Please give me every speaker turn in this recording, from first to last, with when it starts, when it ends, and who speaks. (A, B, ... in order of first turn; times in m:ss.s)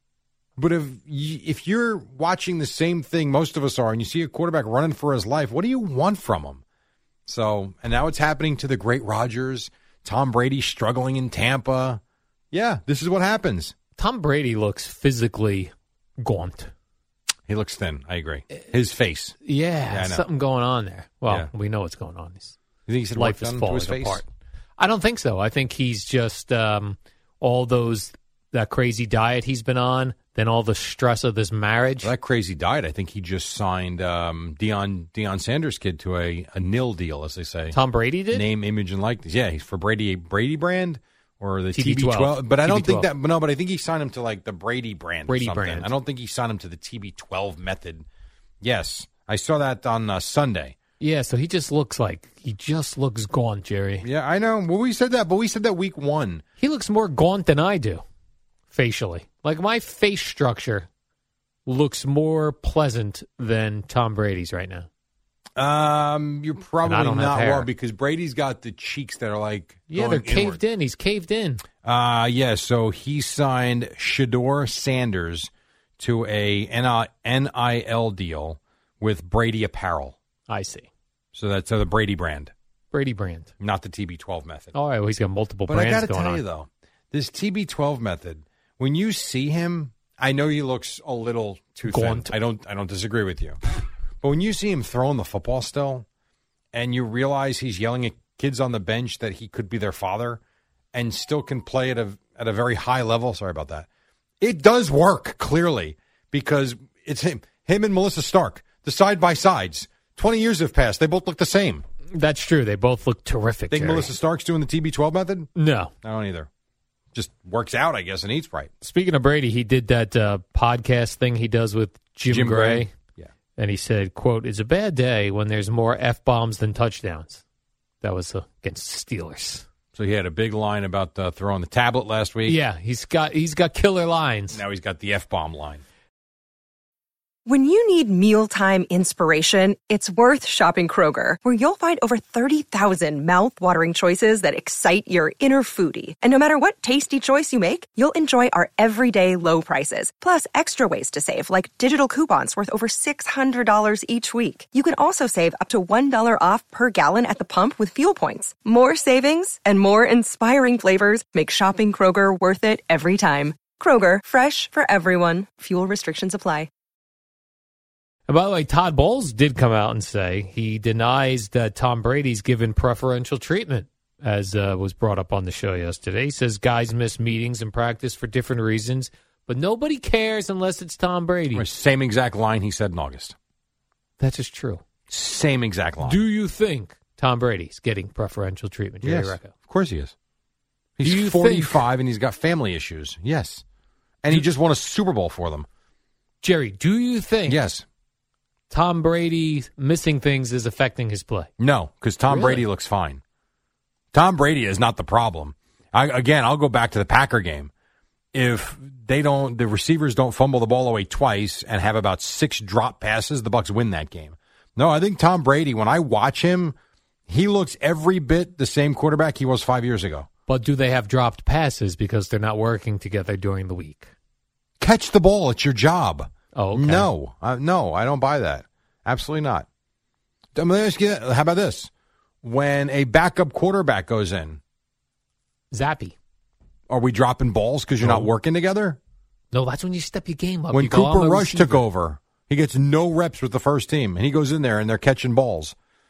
0:00.6-0:06.6 A
0:07.3-0:12.0 A
0:12.5-0:13.7 A
0:14.0-0:16.7 B
0:17.5-0:19.4 A
0:19.4-0:22.6 B
0:19.9-0:20.2 A
0:22.9-0:24.2 A
0:23.1-0:24.3 B
0:24.8-0:32.1 B
0:32.0-0:37.8 A
0:37.7-0:38.4 B
0:38.3-0:48.0 A
0:41.7-0:43.1 B
0:45.3-0:45.9 B
0:48.6-0:50.8 A
0:51.0-0:54.0 B
0:54.0-0:56.4 A
0:56.6-0:58.0 B
0:58.7-1:00.9 B
1:01.6-1:04.9 B
1:05.6-1:10.6 A
1:06.8-1:07.7 B
1:09.9-1:11.6 B
1:11.8-1:20.2 A
1:20.5-1:20.9 B
1:21.3-1:22.5 A
1:22.9-1:23.5 B
1:23.6-1:24.7 A
1:24.7-1:26.4 B
1:25.7-1:33.6 A
1:31.9-1:32.3 B
1:34.2-1:36.0 A
1:36.7-1:40.4 A
1:40.9-1:43.9 A
1:44.4-1:51.8 A
1:52.1-1:54.1 B
1:53.7-1:55.5 A
1:55.6-1:55.9 B
1:56.0-1:56.5 A
1:57.1-1:58.7 A
1:58.8-2:02.9 B
2:02.3-2:03.3 A
2:03.6-2:07.4 B
2:08.0-2:09.6 B
2:09.9-2:12.6 A
2:12.4-2:14.6 B
2:14.5-2:15.8 A
2:17.4-2:46.7 C
2:48.3-3:01.7 B
3:01.5-3:03.3 A
3:04.2-3:04.8 B
3:05.1-3:06.2 A
3:06.0-3:09.5 B
3:09.0-3:10.1 A
3:11.0-3:13.6 A
3:11.0-3:11.8 B
3:14.2-3:15.7 A
3:16.4-3:17.6 B
3:17.5-3:17.8 A
3:18.7-3:21.5 B
3:21.6-3:23.2 A
3:22.3-3:22.6 B
3:24.1-3:27.7 A
3:28.3-3:36.7 A
3:37.3-3:40.3 A
3:40.5-3:44.1 B
3:44.8-3:49.6 A
3:46.5-3:47.1 B
3:50.5-3:51.9 A
3:52.4-3:54.6 A
3:55.7-3:56.2 B
3:56.9-3:59.0 A
3:58.0-3:58.3 B
3:59.5-4:01.8 B
4:00.7-4:05.7 A